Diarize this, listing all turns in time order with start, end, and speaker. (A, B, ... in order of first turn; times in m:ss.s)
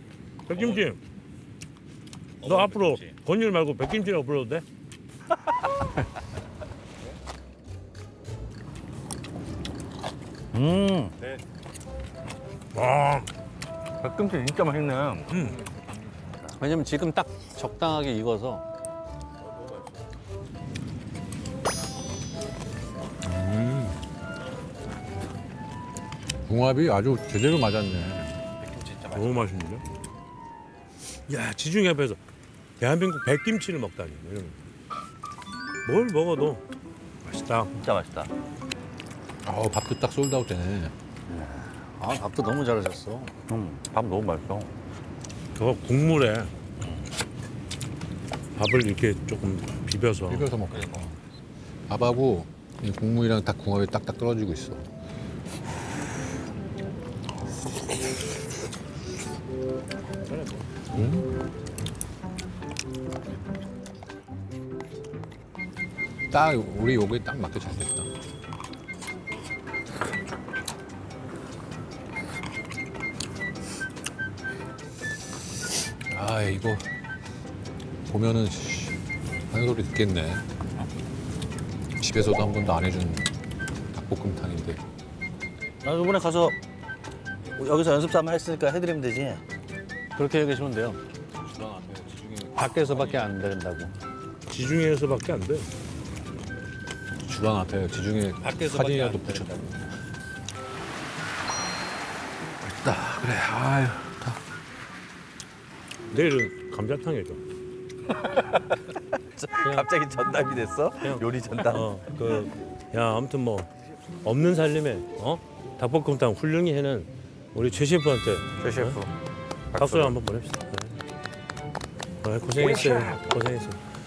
0:00.5-0:01.0 A
0:00.5-0:00.8 B
0:02.4-0:03.1 B
0:02.4-0:04.6 A
0:10.5-0:11.2 B
0:12.7-0:13.3 A
0:14.0-0:15.5 B
0:15.3-0:15.6 A
0:16.6-0:18.6 C
0:23.2-0:24.0 D
0:26.4-0:28.4 D
0:28.6-0:29.5 B
0:29.1-0:29.8 A
0:31.3-0:32.2 A
0:32.8-0:34.6 A
0:35.8-0:36.6 A
0:37.2-0:37.7 A
0:37.7-0:38.3 B
0:39.4-0:40.9 D
0:41.3-0:41.7 B
0:42.0-0:43.3 C
0:43.5-0:44.7 B
0:45.5-0:46.5 A
0:46.8-0:47.0 B
0:48.5-0:50.5 A
0:50.3-0:51.2 D
0:50.7-0:51.0 B
0:51.9-0:54.9 D
1:00.9-1:01.3 D
1:06.3-1:08.1 D
1:16.1-1:16.9 D
1:18.1-1:20.4 D
1:22.0-1:23.3 D
1:23.9-1:24.8 D
1:25.8-1:26.6 B
1:27.5-1:29.4 B
1:30.2-1:31.0 C
1:31.4-1:33.3 D
1:32.6-1:33.9 C
1:34.5-1:35.7 A
1:37.2-1:39.7 D
1:38.5-1:39.5 C
1:42.6-1:44.4 D
1:46.1-1:47.4 A
1:48.2-1:51.9 B
1:51.0-1:53.7 A
1:54.2-1:59.0 A
1:58.6-1:59.1 B
1:59.7-2:00.2 B
1:59.8-2:01.0 A
2:02.2-2:03.8 A
2:02.6-2:03.3 B